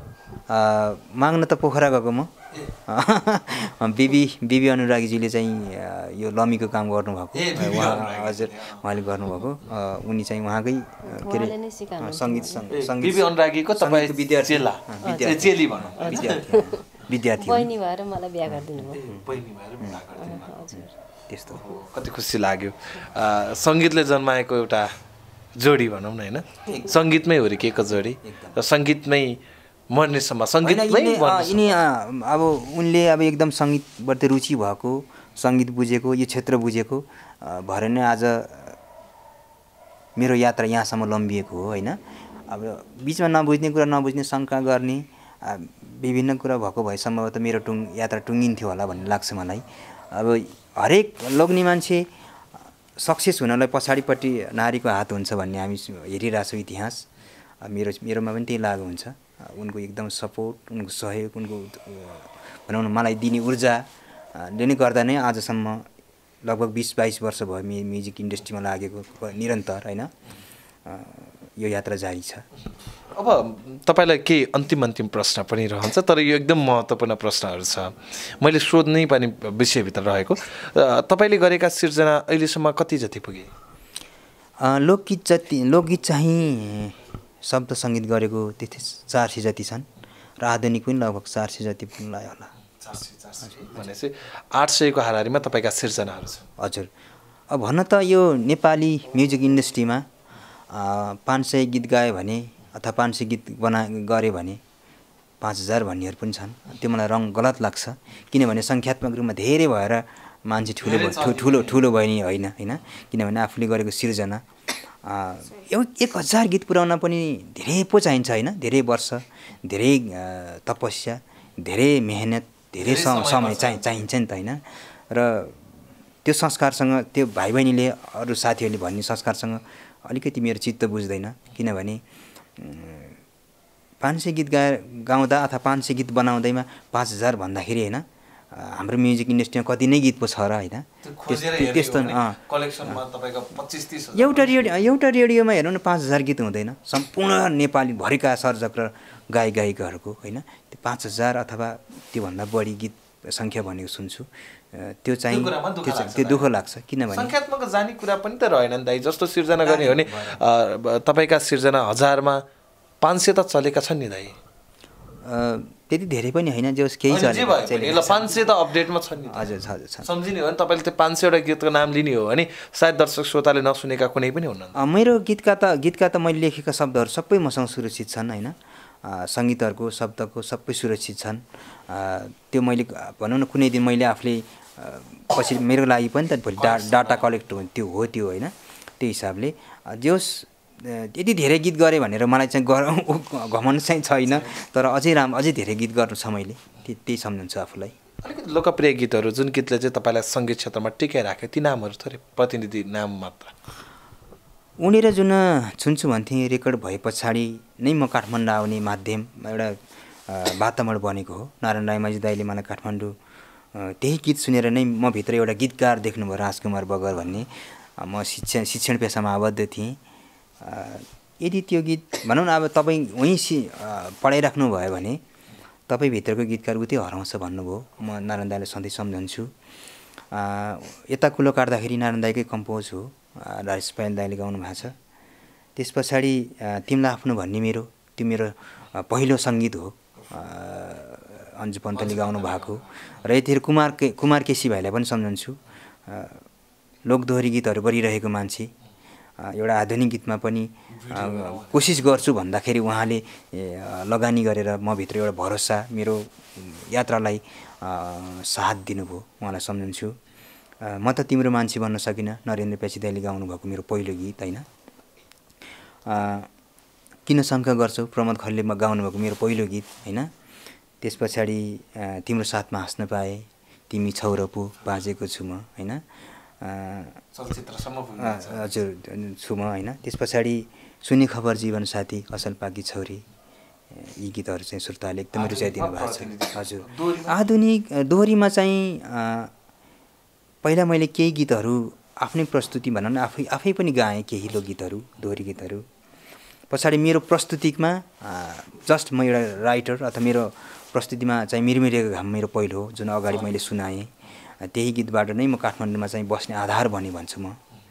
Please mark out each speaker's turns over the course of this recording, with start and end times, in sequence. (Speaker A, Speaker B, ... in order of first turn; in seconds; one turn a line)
Speaker A: 0.5-2.3
Speaker A: 2.9-17.7
Speaker B: 7.3-8.8
Speaker C: 11.1-12.6
Speaker B: 12.7-16.5
Speaker C: 15.0-16.8
Speaker C: 17.4-19.1
Speaker A: 18.5-19.2
Speaker B: 18.9-20.8
Speaker C: 20.2-20.9
Speaker A: 20.8-21.6
Speaker B: 21.5-24.9
Speaker B: 25.6-29.4
Speaker A: 26.7-27.0
Speaker A: 28.2-28.6
Speaker B: 29.9-31.8
Speaker A: 30.6-38.8
Speaker A: 40.2-52.1
Speaker A: 53.0-57.0
Speaker A: 57.6-65.9
Speaker A: 66.4-70.1
Speaker A: 70.9-72.5
Speaker B: 73.1-83.5
Speaker A: 84.6-89.9
Speaker A: 90.4-92.5
Speaker B: 92.8-96.5
Speaker A: 96.6-96.9
Speaker A: 97.5-100.1
Speaker A: 100.7-104.6
Speaker A: 105.4-125.6
Speaker B: 110.8-111.8
Speaker B: 122.8-123.8
Speaker A: 126.2-132.0
Speaker A: 132.6-133.2
Speaker A: 134.0-143.0
Speaker B: 141.0-144.7
Speaker A: 144.2-157.3
Speaker B: 155.3-156.5
Speaker B: 157.1-162.4
Speaker A: 159.6-160.4
Speaker B: 163.0-164.4
Speaker A: 165.2-168.5
Speaker B: 167.1-169.5
Speaker A: 169.3-170.1
Speaker B: 170.0-174.8
Speaker A: 174.8-197.9
Speaker B: 186.6-187.3
Speaker B: 198.2-203.5
Speaker A: 204.8-213.2
Speaker A: 213.7-220.0
Speaker A: 220.6-225.2
Speaker A: 225.9-229.5
Speaker A: 230.3-234.9
Speaker A: 235.8-246.4
Speaker B: 241.9-243.2
Speaker A: 247.1-248.7
Speaker A: 249.4-260.2
Speaker B: 250.9-252.2
Speaker A: 260.8-264.6
Speaker A: 266.1-266.5
Speaker A: 267.3-270.3
Speaker A: 271.0-276.0
Speaker A: 276.6-277.2
Speaker B: 277.3-278.8
Speaker A: 278.2-283.2
Speaker A: 283.9-289.5
Speaker B: 285.3-287.4
Speaker A: 290.6-295.9
Speaker A: 296.7-307.6